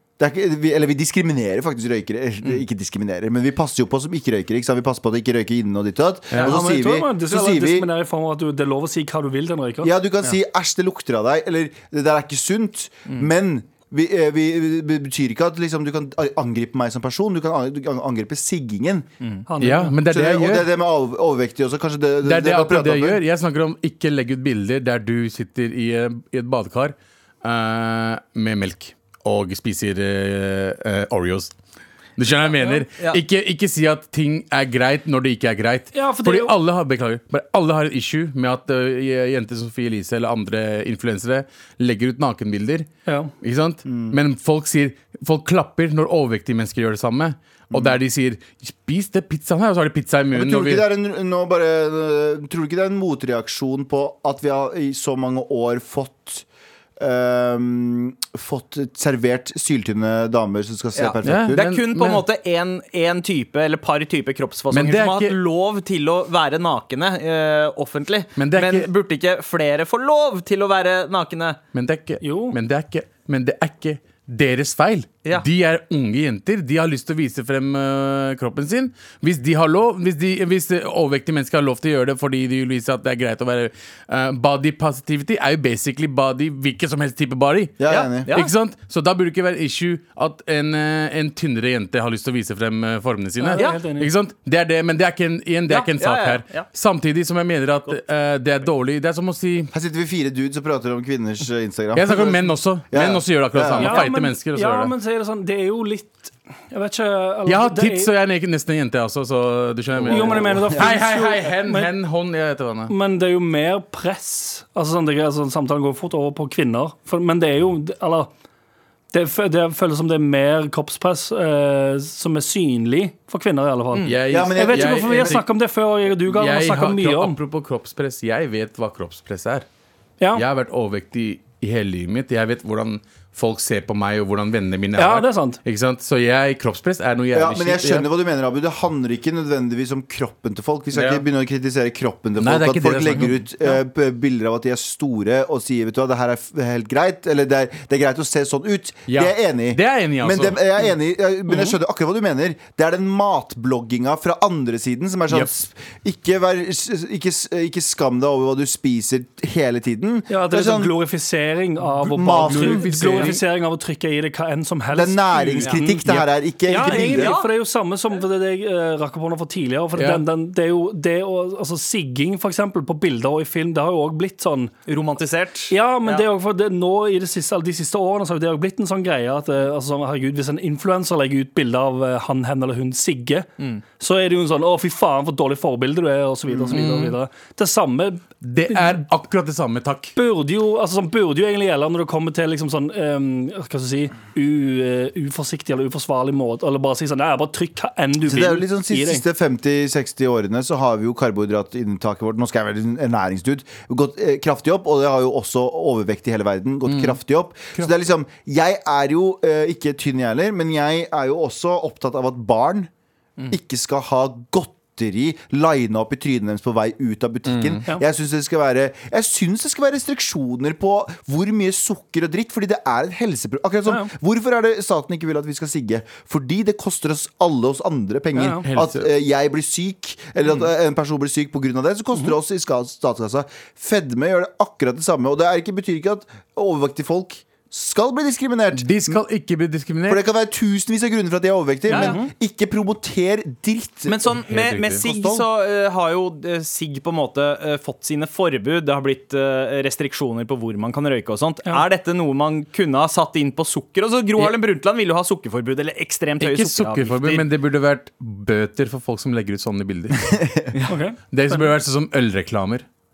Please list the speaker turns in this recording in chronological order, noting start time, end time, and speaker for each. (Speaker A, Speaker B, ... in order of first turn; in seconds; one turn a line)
Speaker A: 0.2-7.9
Speaker B: 6.4-9.9
Speaker A: 9.8-19.1
Speaker B: 19.5-20.0
Speaker C: 19.6-20.7
Speaker A: 20.1-23.2
Speaker C: 22.2-31.6
Speaker C: 32.2-42.9
Speaker D: 32.6-33.2
Speaker B: 35.9-36.5
Speaker B: 43.1-43.3
Speaker C: 43.4-50.9
Speaker A: 43.9-44.2
Speaker A: 47.7-48.0
Speaker A: 50.3-56.5
Speaker A: 57.0-61.7
Speaker D: 61.0-71.6
Speaker C: 61.2-62.2
Speaker C: 64.7-65.4
Speaker C: 68.4-68.9
Speaker C: 71.7-99.7
Speaker B: 72.2-72.6
Speaker A: 87.8-88.3
Speaker D: 87.9-88.5
Speaker B: 93.4-94.1
Speaker D: 95.7-96.7
Speaker A: 99.7-104.0
Speaker C: 101.9-104.9
Speaker B: 103.8-108.1
Speaker C: 107.5-112.9
Speaker A: 110.0-111.0
Speaker B: 110.1-111.9
Speaker B: 112.9-118.3
Speaker B: 119.1-127.4
Speaker C: 124.0-125.5
Speaker A: 124.3-125.4
Speaker C: 126.2-129.7
Speaker C: 130.3-138.1
Speaker B: 135.0-135.6
Speaker A: 137.3-161.0
Speaker C: 140.9-141.2
Speaker C: 142.4-143.4
Speaker C: 149.1-150.6
Speaker B: 160.3-174.7
Speaker A: 162.0-163.4
Speaker C: 162.3-163.4
Speaker A: 164.9-167.4
Speaker D: 166.8-167.5
Speaker C: 170.0-170.2
Speaker D: 174.9-176.3
Speaker B: 175.7-183.5
Speaker B: 184.0-189.0
Speaker C: 186.7-187.2
Speaker C: 188.4-190.1
Speaker B: 190.2-199.2
Speaker A: 198.2-212.9
Speaker C: 206.9-207.2
Speaker A: 213.5-239.2
Speaker C: 217.5-217.8
Speaker B: 228.3-228.7
Speaker C: 228.7-229.1
Speaker C: 238.7-240.2
Speaker A: 240.1-244.2
Speaker D: 241.9-242.2
Speaker B: 241.9-242.3
Speaker D: 244.1-257.5
Speaker C: 244.5-245.0
Speaker A: 245.0-245.4
Speaker C: 256.4-260.4
Speaker A: 260.3-260.7
Speaker B: 260.9-261.7
Speaker C: 261.3-262.9